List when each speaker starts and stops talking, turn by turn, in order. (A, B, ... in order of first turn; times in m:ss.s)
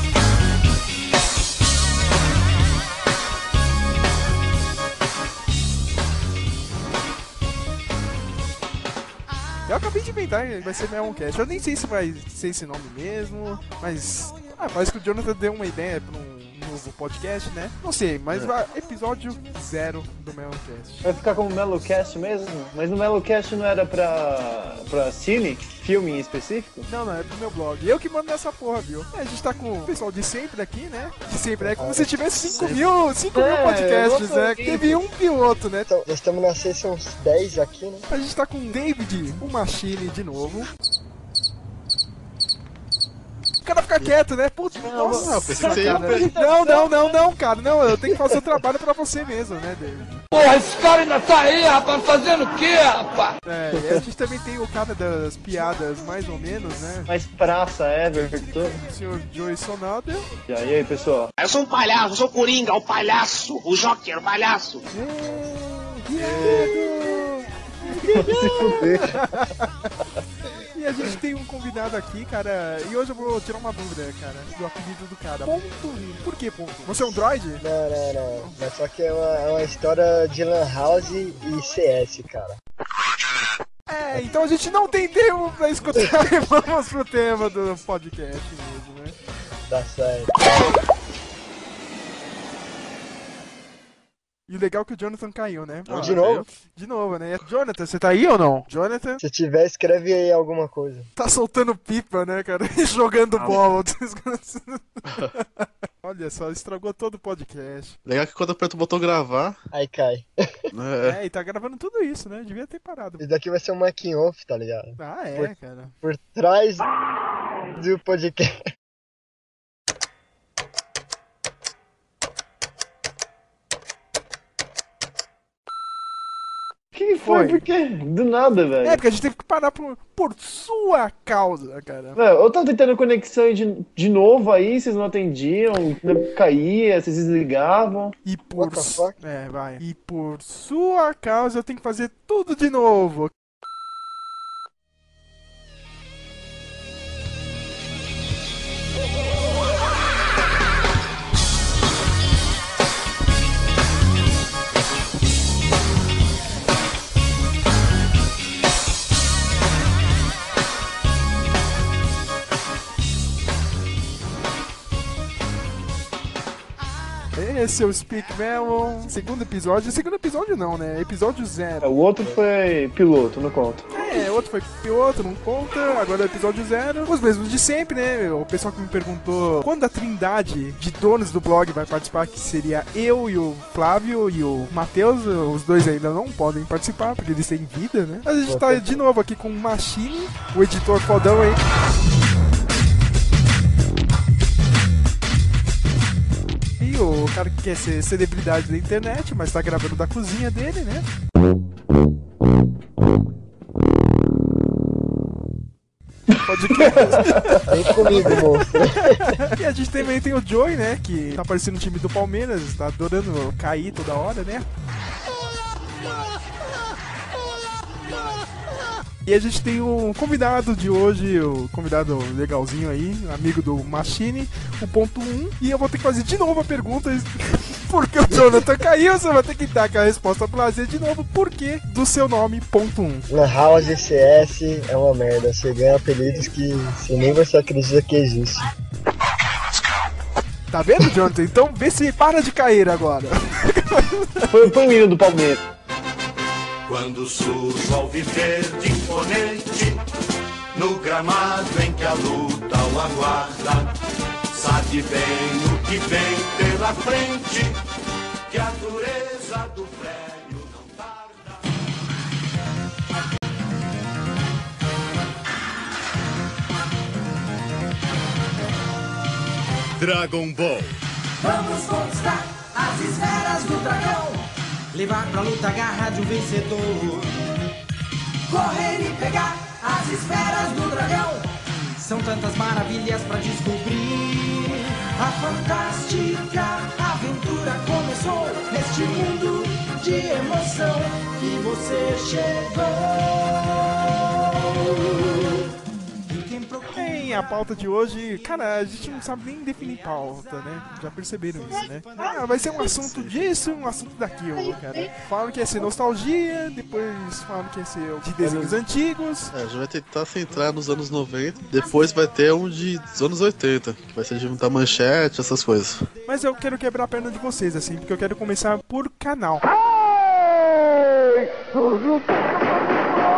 0:09.6-0:21.0 A
0:21.0-0:26.8 B
0:26.8-0:35.9 A
0:31.6-0:32.1 C
0:32.4-0:32.8 D
0:33.3-0:35.0 B
0:35.9-0:38.0 C
0:38.1-0:40.7 A
0:43.6-0:50.2 A
0:44.7-0:47.2 B
0:45.1-0:46.3 D
0:50.3-0:53.2 E
0:53.4-0:57.1 A
0:57.1-0:58.7 B
0:58.1-1:00.3 A
1:00.5-1:01.3 B
1:01.4-1:04.8 F
1:04.9-1:09.7 A
1:06.4-1:06.9 B
1:08.1-1:09.2 B
1:10.7-1:17.6 A
1:17.6-1:22.6 C
1:23.9-1:29.1 A
1:29.7-1:30.7 C
1:34.5-1:39.2 A
1:35.9-1:36.4 D
1:35.9-1:36.4 C
1:39.2-1:41.1 C
1:41.2-1:48.0 A
1:48.0-1:49.6 D
1:49.7-1:50.3 C
1:50.7-1:51.2 D
1:51.0-1:53.2 A
1:53.2-1:56.9 C
1:55.0-1:55.9 A
1:57.7-1:58.6 C
2:06.9-2:09.0 B
2:07.2-2:07.6 A
2:08.8-2:12.2 A
2:12.2-2:18.1 B
2:18.2-2:23.3 A
2:18.5-2:19.1 C
2:47.3-2:51.9 A
2:51.8-2:53.8 B
2:53.9-3:11.6 A
3:08.5-3:09.0 C
3:16.8-3:21.1 A
3:26.4-3:34.7 A
3:26.7-3:27.6 B
3:27.7-3:29.2 C
3:39.2-3:53.2 A
3:48.3-3:48.6 C
3:53.3-3:58.6 C
4:00.7-4:04.5 A
4:04.5-4:05.6 B
4:06.9-4:10.0 G
4:10.7-4:13.9 G
4:14.5-4:17.8 G
4:18.5-4:21.5 G
4:30.0-4:30.8 G
4:31.4-4:37.4 H
4:38.5-4:53.8 H
4:54.6-4:55.6 H
4:56.3-4:57.4 H
4:56.9-5:09.5 A
5:02.8-5:03.4 D
5:08.4-5:08.8 C
5:09.5-5:16.1 D
5:16.2-5:19.6 A